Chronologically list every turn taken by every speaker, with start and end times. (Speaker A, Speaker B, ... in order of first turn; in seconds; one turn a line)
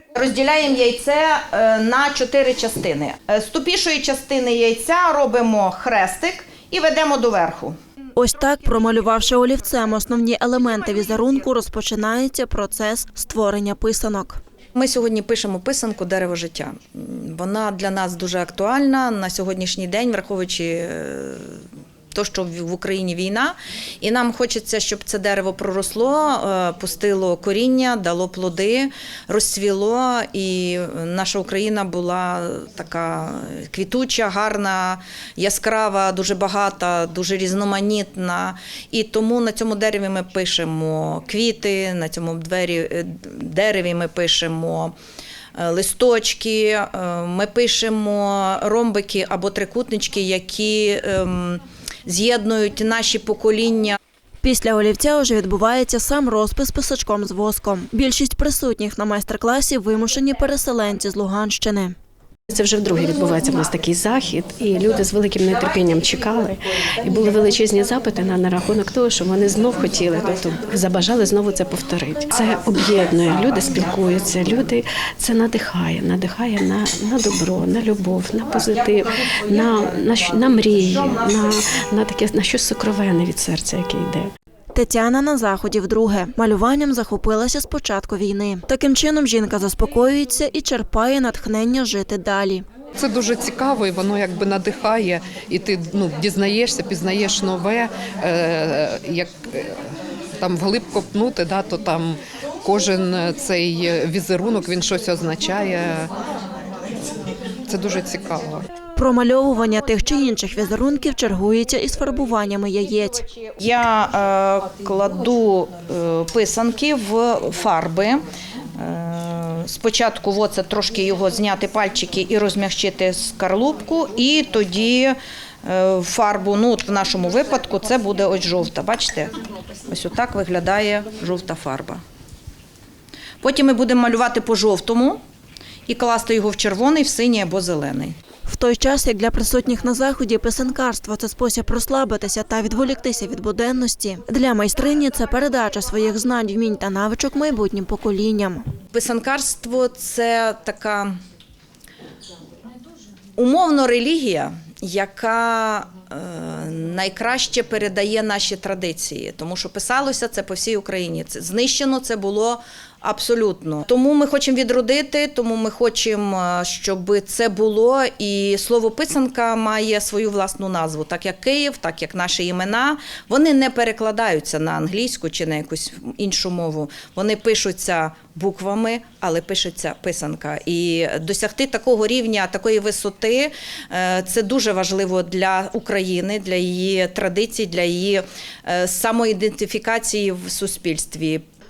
Speaker A: 0.1-7.8
Speaker B: 8.2-14.4
Speaker A: 14.7-21.6
Speaker A: 22.1-44.9
Speaker A: 45.6-54.0
Speaker B: 54.4-61.9
Speaker C: 62.5-84.3
Speaker A: 79.3-79.8
Speaker A: 80.5-81.0
Speaker B: 84.7-92.6
Speaker D: 93.0-99.7
Speaker D: 100.4-106.1
Speaker D: 107.7-108.7
Speaker B: 109.0-113.2
Speaker A: 113.6-118.2
Speaker A: 118.8-129.3
Speaker A: 129.9-132.0
Speaker A: 133.4-135.2
Speaker A: 135.9-138.1
Speaker B: 138.4-148.7
Speaker A: 148.9-151.2
Speaker A: 153.4-191.4